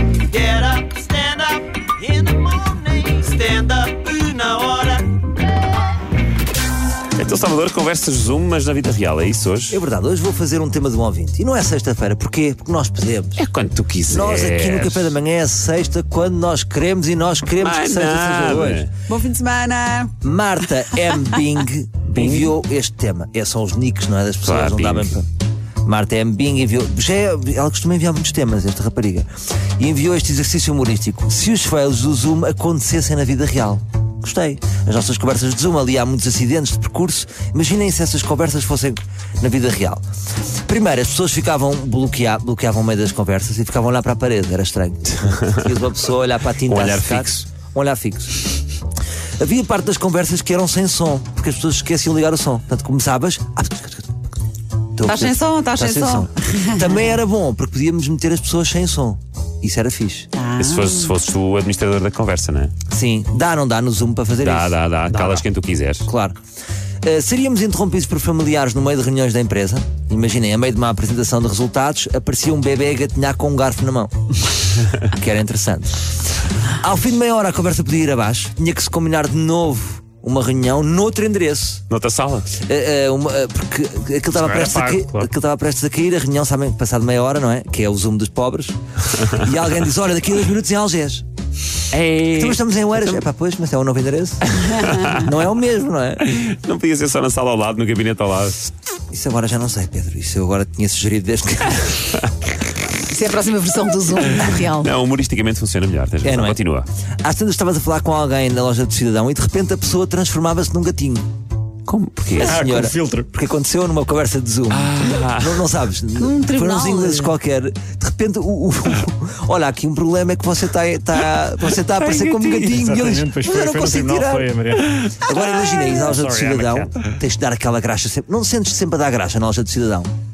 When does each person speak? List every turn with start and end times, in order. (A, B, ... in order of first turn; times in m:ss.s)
0:00.4-0:01.6 A
0:02.3-0:05.0 A
0:07.2-0:09.8 B
0:09.7-0:13.4 C
0:13.4-0:15.2 B
0:14.1-0:18.9 C
0:17.6-0:18.9 B
0:19.1-0:20.1 D
0:20.2-0:25.2 C
0:20.9-0:21.4 D
0:22.1-0:22.5 B
0:24.4-0:25.2 B
0:25.8-0:40.0 C
0:40.7-0:48.5 C
0:46.6-0:47.4 B
0:49.4-0:54.1 C
0:55.0-1:00.3 C
0:55.0-0:57.1 D
1:00.3-1:01.1 D
1:00.6-1:02.7 B
1:02.9-1:05.2 C
1:04.4-1:06.0 B
1:06.0-1:06.4 C
1:07.0-1:14.1 C
1:15.0-1:16.0 C
1:16.8-1:21.8 C
1:21.9-1:22.6 B
1:22.6-1:31.2 C
1:24.4-1:25.3 E
1:24.5-1:24.9 B
1:31.9-1:33.2 B
1:32.4-1:36.2 C
1:34.6-1:35.3 B
1:36.2-1:38.7 B
1:39.1-1:42.2 C
1:43.0-1:44.9 D
1:44.4-1:46.9 B
1:46.2-1:46.6 C
1:47.2-1:51.3 C
1:51.9-1:52.6 B
1:52.4-2:04.5 C
1:52.4-1:53.3 E
1:54.7-1:55.7 B
1:56.2-1:57.3 D
2:02.1-2:02.4 B
2:02.4-2:05.2 E
2:05.0-2:05.4 B
2:05.2-2:10.1 C
2:05.8-2:06.9 E